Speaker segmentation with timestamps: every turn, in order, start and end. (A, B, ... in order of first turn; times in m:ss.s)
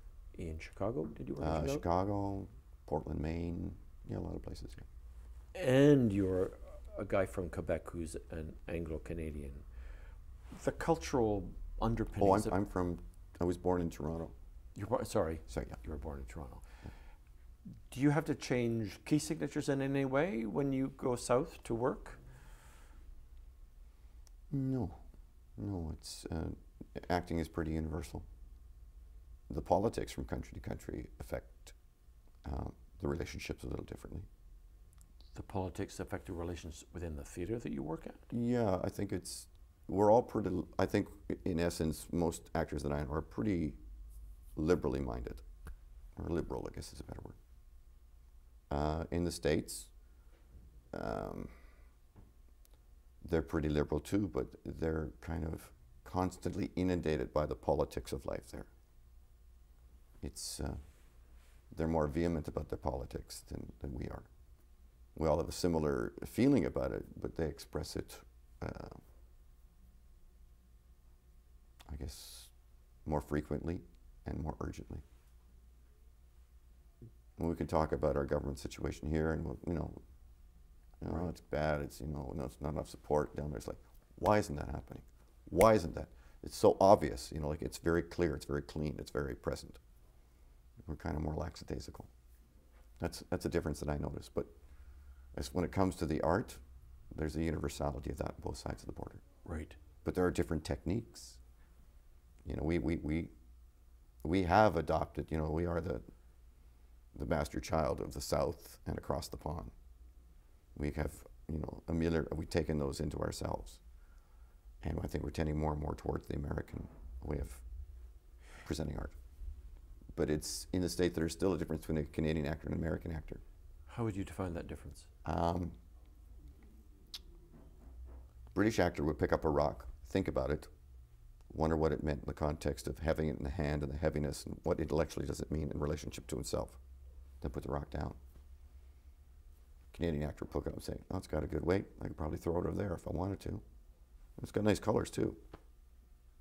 0:00.3-0:01.8 A
0:01.4-0:04.8 B
0:05.5-0:09.7 A
0:10.5-0:12.6 A
0:12.2-0:14.3 B
0:14.8-0:16.6 A
0:15.5-0:15.8 B
0:17.9-0:22.2 A
0:24.5-0:28.3 B
0:29.5-0:31.8 B
0:32.4-0:34.3 B
0:35.4-0:38.2 A
0:38.3-0:43.8 B
0:44.6-0:45.4 B
0:46.2-0:47.4 B
0:48.7-0:50.0 B
0:50.9-0:51.6 B
0:53.2-0:58.7 B
1:00.2-1:04.3 B
1:05.2-1:09.0 B
1:11.9-1:15.0 B
1:17.4-1:20.0 B
1:21.0-1:29.8 B
1:30.9-1:32.1 B
1:33.0-1:34.5 B
1:35.3-1:36.6 B
1:37.1-1:39.2 B
1:39.4-1:39.8 A
1:40.0-1:41.4 B
1:42.4-1:43.3 B
1:44.2-1:46.0 B
1:47.1-1:49.7 B
1:50.8-1:53.8 B
1:54.8-1:57.6 B
1:58.6-1:59.2 B
2:00.2-2:03.4 B
2:03.9-2:05.1 A
2:05.2-2:05.8 B
2:08.5-2:10.7 B
2:11.5-2:16.8 B
2:17.4-2:18.2 B
2:19.9-2:23.6 B
2:24.4-2:25.4 B